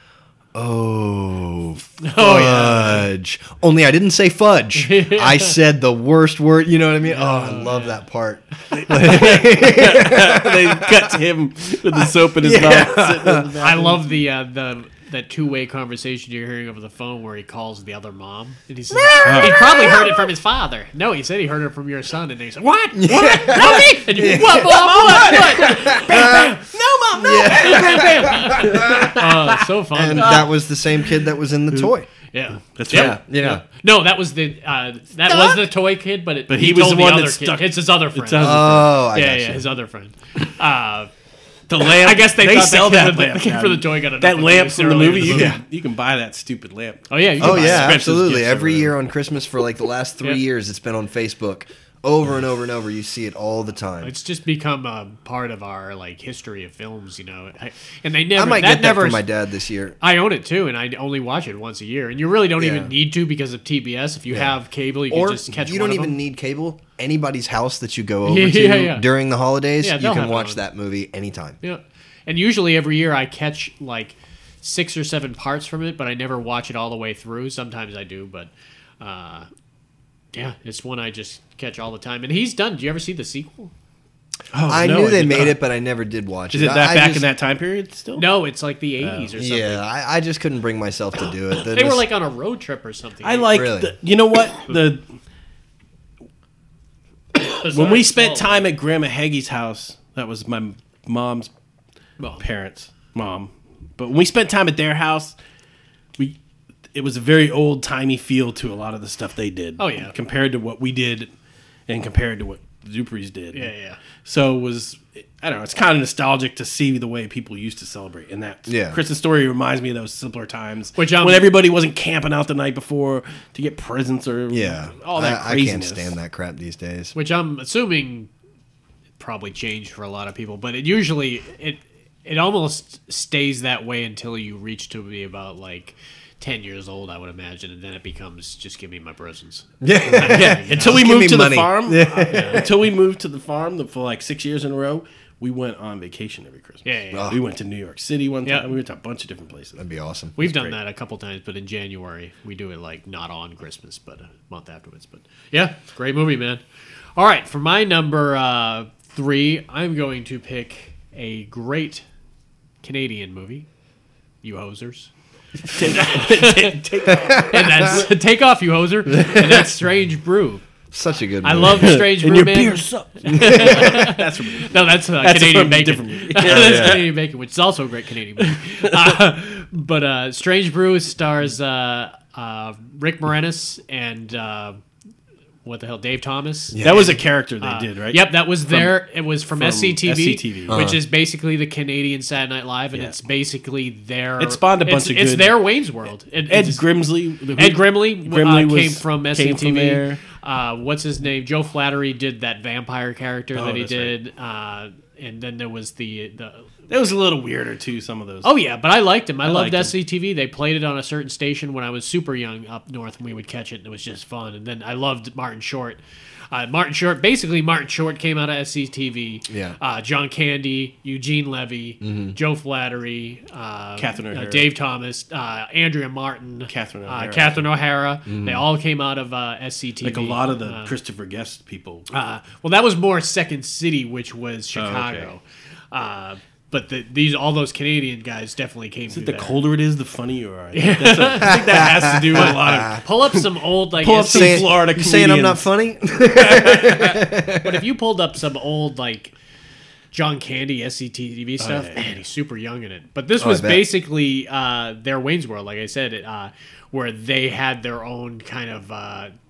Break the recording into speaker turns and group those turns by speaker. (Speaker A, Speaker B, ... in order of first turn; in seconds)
Speaker A: 0.5-11.1, 11.9-13.5, 18.9-20.2, 22.9-26.6, 27.2-29.2, 29.9-32.1, 32.9-33.6, 38.4-39.7, 45.2-45.6, 47.4-54.1, 58.4-60.0, 62.6-62.9, 64.3-64.5, 65.1-71.6, 84.7-87.2, 89.3-92.0, 93.5-93.9, 118.7-119.0, 124.5-127.1, 139.8-142.7, 147.1-147.4, 149.8-150.3, 167.2-167.9, 169.1-169.7, 170.9-171.9, 173.3-174.0, 176.4-177.1, 186.7-187.1, 190.7-191.0, 219.5-219.8, 222.0-222.3, 228.3-228.6, 241.4-243.0, 244.2-247.8, 253.4-253.9
Speaker B: 2.0-3.1, 4.8-5.6, 7.1-8.0, 13.6-26.4, 27.5-30.5, 32.3-41.1, 41.8-45.6, 47.1-48.0, 54.0-59.2, 60.0-66.2, 68.2-69.0, 69.8-70.6, 71.6-78.5, 79.0-79.5, 80.3-83.7, 88.2-89.8, 91.6-93.5, 97.5-98.7, 109.8-110.1, 113.5-114.0, 121.0-121.5, 127.1-128.3, 129.2-141.0, 142.3-142.7, 146.8-147.3, 150.4-156.6, 157.2-162.0, 162.8-163.7, 164.4-165.1, 166.0-166.8, 167.4-170.7, 171.4-184.8, 185.6-196.8, 197.6-206.7, 208.4-230.9, 232.1-239.6, 240.7-244.7, 246.5-249.3, 250.1-259.3
Speaker C: 8.7-14.1, 19.2-19.6, 23.5-29.6, 30.1-30.5, 32.6-33.2, 36.5-38.9, 41.7-48.9, 84.5-85.6, 86.5-88.3, 89.0-89.3, 93.2-95.0, 97.7-101.5, 102.4-105.3, 106.9-111.3, 111.9-113.7, 114.2-126.1, 140.2-149.8, 150.4-150.7, 165.7-168.0, 171.8-177.1, 178.5-179.1, 186.8-190.8, 194.4-195.6, 196.5-200.2, 203.5-204.1, 206.9-208.5, 209.4-209.9, 224.0-224.7, 226.7-227.6, 230.0-232.1, 234.8-235.3, 239.1-245.6, 251.6-252.2